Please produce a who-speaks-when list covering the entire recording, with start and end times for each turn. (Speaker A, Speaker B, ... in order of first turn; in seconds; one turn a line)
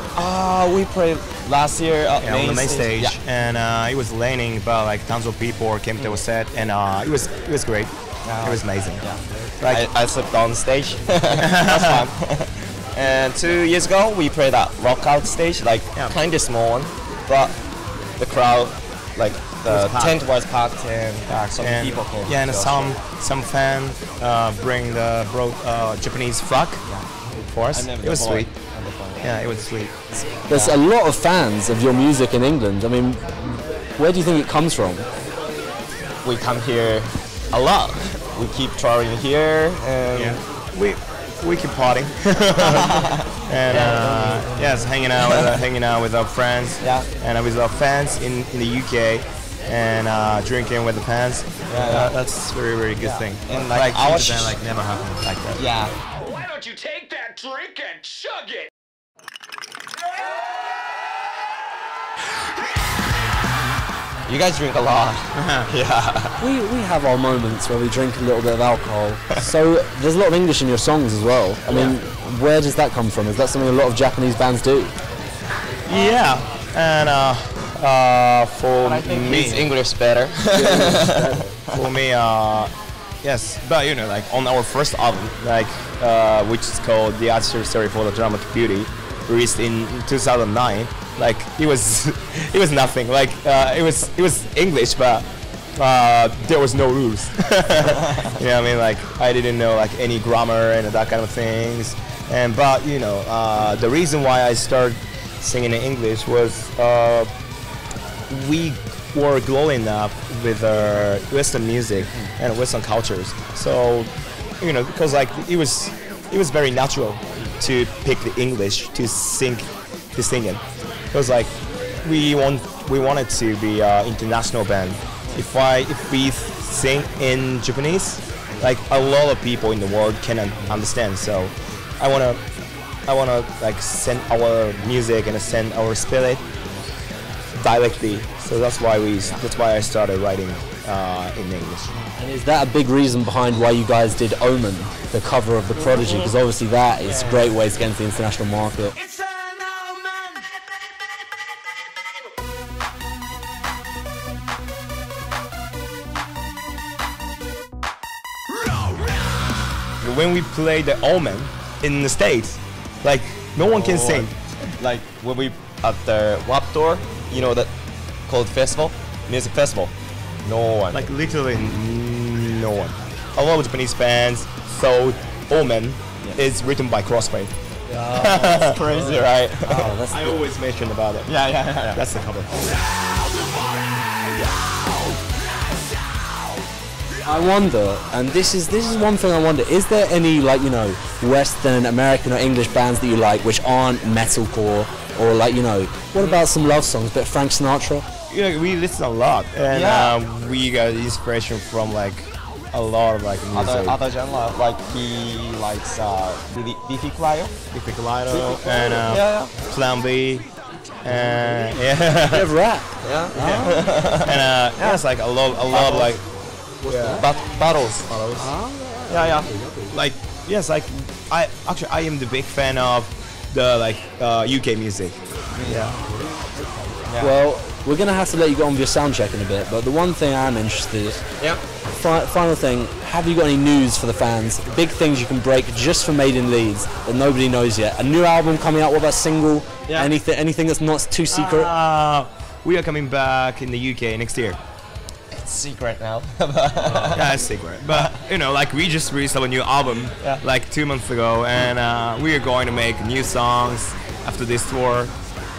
Speaker A: 0.2-3.2
Speaker B: 2.2-9.1
Speaker A: 8.2-17.6
Speaker B: 9.6-9.9
Speaker B: 11.3-12.0
Speaker A: 18.2-23.0
Speaker B: 19.7-20.2
Speaker B: 21.3-26.8
Speaker B: 27.4-28.5
Speaker A: 27.7-29.4
Speaker B: 29.2-30.1
Speaker C: 30.5-35.1
Speaker A: 30.5-30.8
Speaker A: 36.2-40.4
Speaker B: 40.1-55.6
Speaker A: 42.9-43.2
Speaker A: 43.7-44.0
Speaker C: 43.7-44.8
Speaker A: 46.8-47.1
Speaker A: 51.7-52.1
Speaker A: 53.0-54.6
Speaker A: 55.6-56.0
Speaker D: 56.5-57.9
Speaker A: 64.3-66.4
Speaker B: 65.3-65.7
Speaker C: 66.4-74.9
Speaker A: 71.7-72.0
Speaker B: 75.9-79.7
Speaker A: 78.8-81.8
Speaker C: 80.5-81.5
Speaker B: 80.6-80.9
Speaker B: 81.7-107.3
Speaker B: 108.3-132.4
Speaker B: 133.1-136.4
Speaker B: 137.5-141.9
Speaker C: 142.2-149.0
Speaker D: 149.2-150.4
Speaker B: 160.0-164.3
Speaker A: 163.6-167.7
Speaker A: 168.3-171.0
Speaker B: 170.9-178.8
Speaker C: 177.9-180.4
Speaker A: 178.4-179.9
Speaker B: 180.1-182.5
Speaker A: 181.3-182.0
Speaker C: 187.2-198.1
Speaker B: 198.3-204.0
Speaker A: 199.7-200.2
Speaker A: 203.5-207.5
Speaker B: 207.7-210.5
Speaker A: 208.3-209.5
Speaker B: 211.0-212.5
Speaker C: 212.3-213.8
Speaker A: 213.0-215.0
Speaker B: 213.3-217.3
Speaker A: 215.7-216.1
Speaker A: 217.2-218.1
Speaker B: 218.1-218.5
Speaker C: 218.4-219.0
Speaker A: 219.1-219.5
Speaker B: 219.9-226.0
Speaker A: 225.5-225.9
Speaker A: 227.1-227.3
Speaker C: 227.2-231.2
Speaker C: 231.9-241.7
Speaker A: 239.9-240.1
Speaker B: 241.3-244.6
Speaker A: 245.3-247.3
Speaker B: 247.1-255.2
Speaker A: 247.9-248.1